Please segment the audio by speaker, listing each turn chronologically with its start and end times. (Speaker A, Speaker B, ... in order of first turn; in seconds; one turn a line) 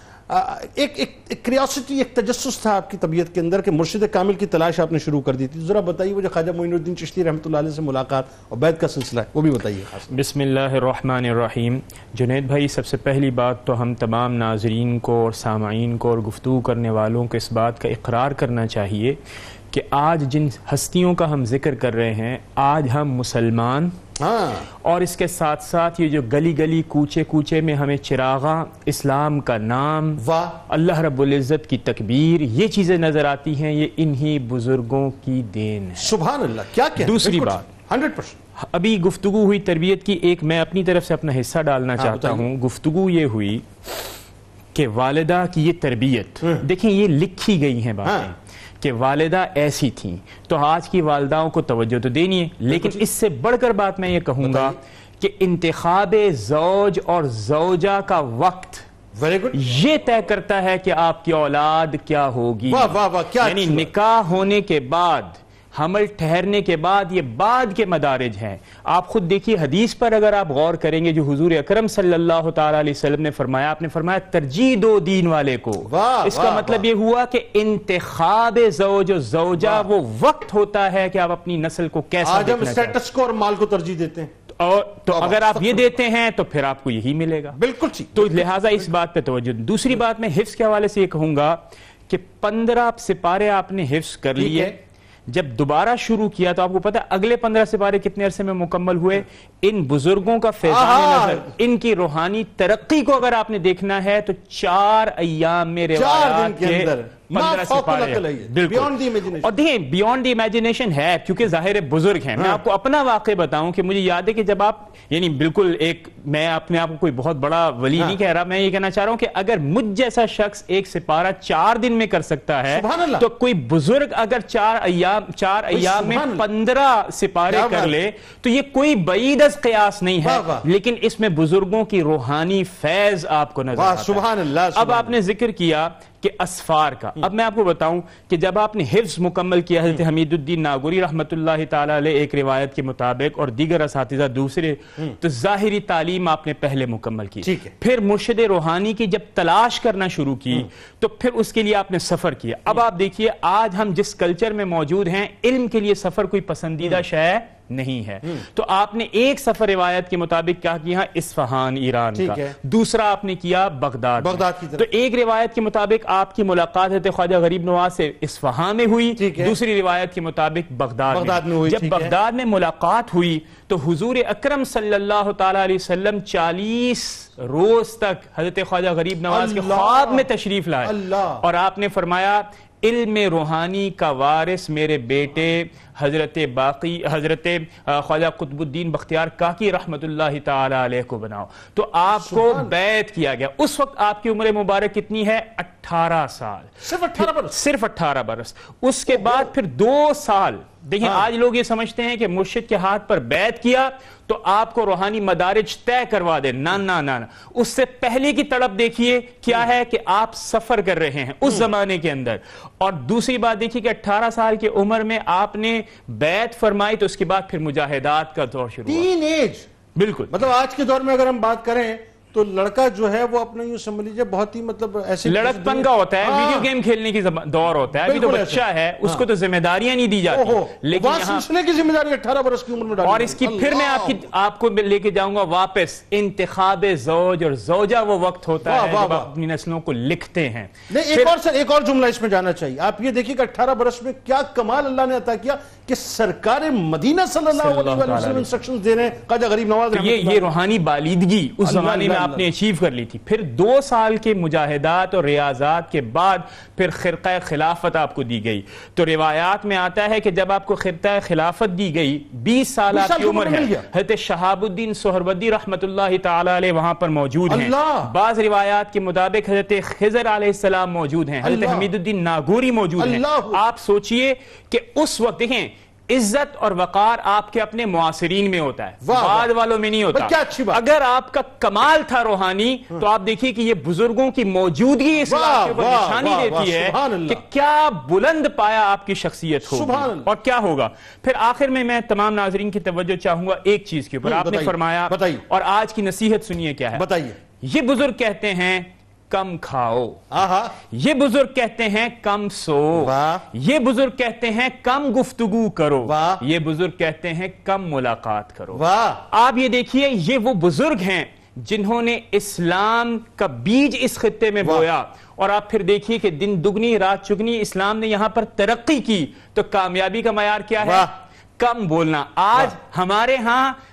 Speaker A: 0.3-10.2
Speaker B: 10.1-19.2
Speaker B: 19.7-23.9
Speaker A: 24.2-24.7
Speaker B: 24.8-36.2
Speaker A: 30.2-30.6
Speaker A: 36.0-38.4
Speaker B: 37.0-37.7
Speaker B: 38.6-43.7
Speaker A: 42.0-42.5
Speaker B: 44.8-58.8
Speaker A: 48.0-48.3
Speaker A: 52.7-53.0
Speaker A: 54.4-54.8
Speaker A: 59.2-59.7
Speaker B: 59.5-83.0
Speaker A: 62.7-63.9
Speaker A: 75.9-76.9
Speaker A: 79.5-79.9
Speaker A: 82.2-84.3
Speaker B: 84.5-87.6
Speaker A: 85.1-86.0
Speaker A: 87.5-88.5
Speaker B: 88.1-94.8
Speaker A: 94.4-94.7
Speaker B: 95.3-219.1
Speaker A: 100.6-101.5
Speaker A: 105.9-109.5
Speaker A: 112.3-112.6
Speaker A: 122.7-123.3
Speaker A: 125.7-126.5
Speaker A: 127.5-128.0
Speaker A: 130.2-130.7
Speaker A: 133.7-135.2
Speaker A: 147.4-147.7
Speaker A: 162.2-162.6
Speaker A: 164.2-164.8
Speaker A: 169.2-169.6
Speaker A: 171.1-172.2
Speaker A: 179.3-180.3
Speaker A: 180.8-181.4
Speaker A: 192.1-192.8
Speaker A: 196.8-197.6
Speaker A: 199.1-199.5
Speaker A: 201.0-201.3
Speaker A: 211.4-211.7
Speaker A: 218.8-219.7
Speaker B: 219.9-220.3
Speaker A: 220.3-226.7
Speaker B: 225.2-231.4
Speaker A: 227.9-229.3
Speaker A: 230.3-234.3
Speaker B: 233.0-241.3
Speaker A: 238.6-239.3
Speaker A: 240.9-250.5
Speaker B: 247.5-248.5
Speaker B: 249.9-297.1
Speaker A: 251.6-252.5
Speaker A: 262.9-263.9
Speaker A: 267.5-268.1
Speaker A: 271.4-271.9
Speaker A: 273.0-273.6
Speaker A: 279.0-279.5
Speaker A: 280.1-280.8
Speaker A: 285.2-287.4
Speaker A: 289.6-290.3
Speaker A: 294.2-295.4
Speaker A: 296.9-297.4
Speaker B: 297.6-300.2
Speaker A: 300.3-300.8
Speaker B: 300.9-323.8
Speaker A: 302.9-303.4
Speaker A: 306.0-306.4
Speaker A: 308.7-309.2
Speaker A: 314.6-314.9
Speaker A: 320.8-321.1